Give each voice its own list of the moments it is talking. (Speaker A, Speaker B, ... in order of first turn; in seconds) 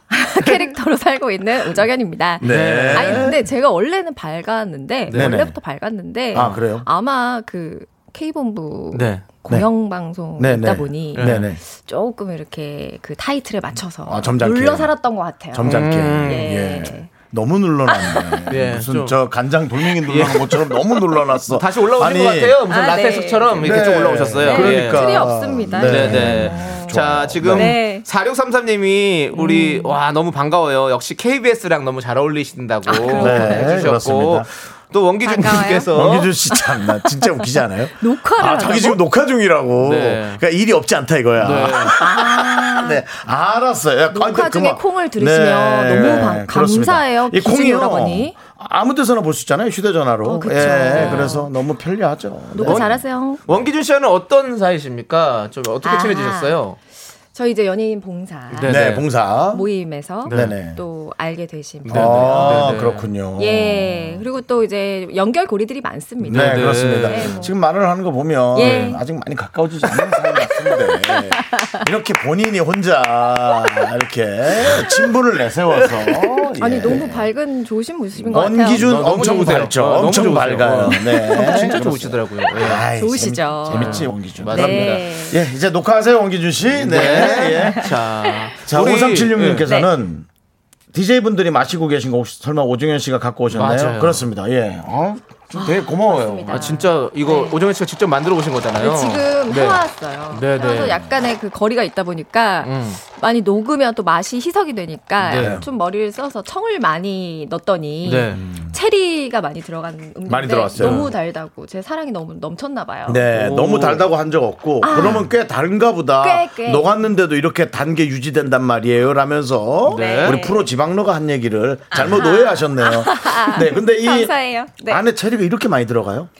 Speaker A: 0.1-17.1, 17.9-18.5, 22.7-28.1, 29.3-30.0, 32.9-34.0, 35.2-39.0, 41.8-43.0, 44.1-48.4, 50.2-51.5, 52.5-53.4, 55.8-56.6, 57.3-62.8, 63.4-67.5, 68.5-69.0, 69.9-71.8, 74.7-75.1, 76.5-79.5, 81.0-81.8, 82.8-85.4, 87.0-88.4, 89.6-89.9, 95.5-97.6, 98.8-113.3, 114.8-115.3, 116.2-117.0, 119.9-120.7, 121.9-125.0
Speaker B: 2.4-3.4, 5.1-5.6, 6.3-6.9, 10.4-11.6, 14.1-14.9, 15.5-22.6, 23.6-27.8, 33.1-34.5, 35.9-53.0, 58.6-59.7, 60.3-60.8, 61.9-64.2, 66.2-77.3, 78.2-87.9, 88.6-90.3, 90.9-96.7, 105.3-105.7, 108.3-108.7, 110.2-111.1, 113.0-126.3
Speaker C: 2.4-3.3, 5.1-5.4, 8.9-9.2, 11.1-11.5, 15.6-16.5, 18.5-19.2, 20.0-20.6, 21.5-36.3, 39.8-40.4, 41.4-42.0, 50.6-51.4, 52.6-52.9, 53.4-56.8, 58.5-59.1, 60.2-60.5, 61.8-63.1, 66.3-67.5, 68.6-69.0, 78.3-82.8, 83.7-85.1, 86.8-89.7, 93.5-94.2, 96.5-101.0, 102.6-103.0, 105.2-105.6, 108.0-108.4, 110.8-111.1, 113.3-114.1, 114.9-115.3, 119.8-120.4